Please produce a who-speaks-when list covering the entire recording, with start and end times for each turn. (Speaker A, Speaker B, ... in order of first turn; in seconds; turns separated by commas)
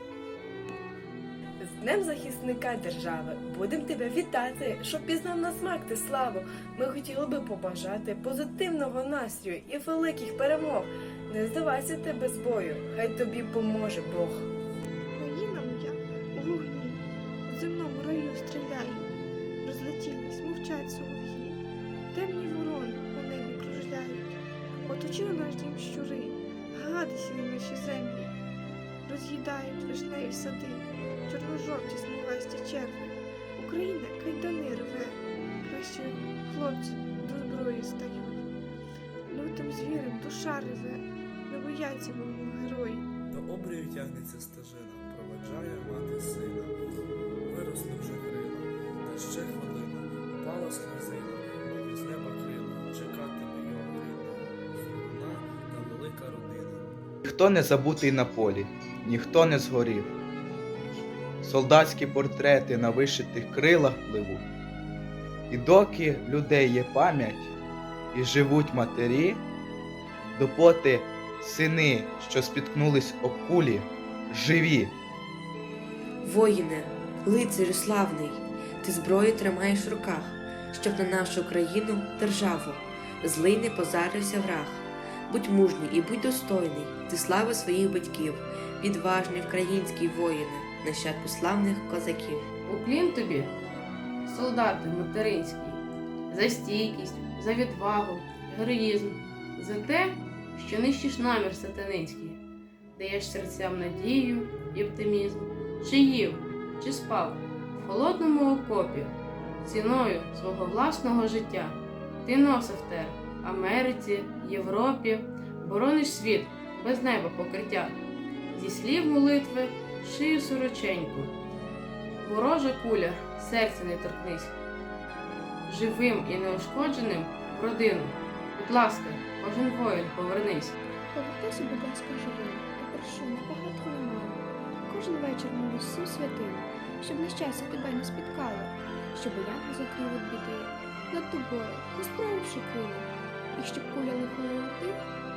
Speaker A: 1.6-14.5, Speaker B: 15.1-19.1, Speaker B: 19.6-21.6, Speaker B: 22.1-28.3, Speaker B: 29.1-38.5, Speaker B: 39.3-43.0, Speaker C: 43.3-46.8, Speaker C: 47.4-57.0, Speaker D: 57.2-60.1, Speaker D: 61.4-64.4, Speaker D: 65.5-67.5, Speaker D: 68.1-69.4, Speaker D: 70.3-74.9, Speaker E: 76.2-92.5, Speaker F: 92.7-93.5, Speaker F: 94.2-102.4, Speaker F: 103.0-118.0, Speaker F: 118.5-121.3, Speaker F: 122.2-124.5, Speaker F: 125.7-130.8, Speaker G: 131.1-145.0